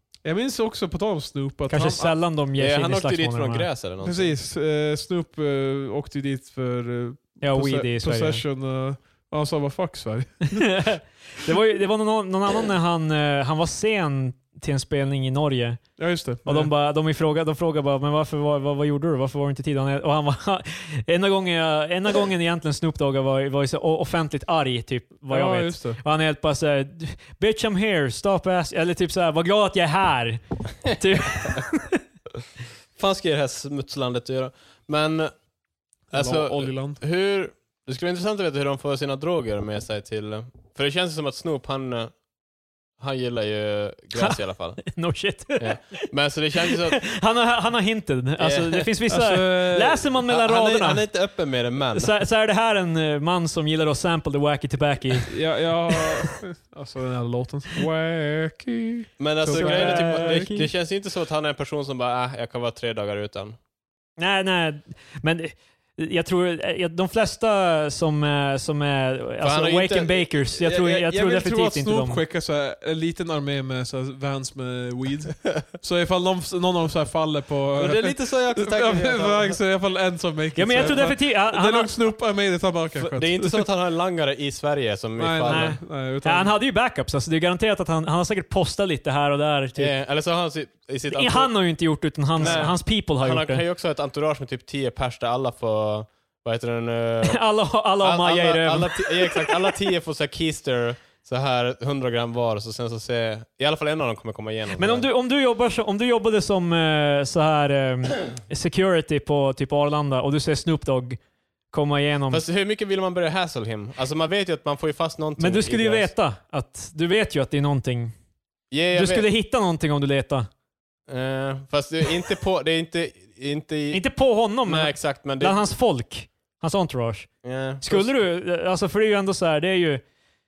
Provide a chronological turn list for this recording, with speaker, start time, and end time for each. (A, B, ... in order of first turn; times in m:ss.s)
0:00.2-0:02.2 A
0:01.7-0:03.7 B
0:02.6-0:04.3 C
0:04.0-0:10.9 A
0:07.4-0:08.4 B
0:10.5-0:15.8 B
0:16.0-0:16.7 A
0:16.4-0:32.0 B
0:25.3-0:26.0 A
0:33.0-0:35.3 C
0:36.1-0:37.0 A
0:36.1-0:42.1 C
0:43.0-0:45.0 C
0:44.1-0:46.0 B
0:45.6-0:47.1 C
0:46.7-0:51.0 B
0:48.4-0:48.9 C
0:49.1-0:50.0 A
0:50.3-0:52.1 C
0:51.9-0:55.4 B
0:55.3-1:00.6 A
0:59.2-1:03.6 C
0:59.5-1:00.7 B
1:04.2-1:12.2 B
1:09.4-1:10.3 C
1:10.6-1:23.6 A
1:17.8-1:19.6 C
1:20.6-1:21.9 B
1:23.0-1:25.8 C
1:25.2-1:26.5 A
1:25.5-1:29.9 B
1:29.8-1:31.5 C
1:31.1-1:33.6 B
1:32.4-1:37.4 C
1:32.4-1:32.7 A
1:37.2-1:39.6 B
1:38.0-1:45.1 C
1:44.8-1:51.2 B
1:51.7-1:52.4 B
1:52.3-1:56.1 C
1:55.4-1:58.1 B
1:58.7-1:59.2 C
1:58.9-2:00.5 B
2:01.1-2:04.1 C
2:03.9-2:10.0 B
2:04.6-2:05.6 C
2:07.4-2:08.1 C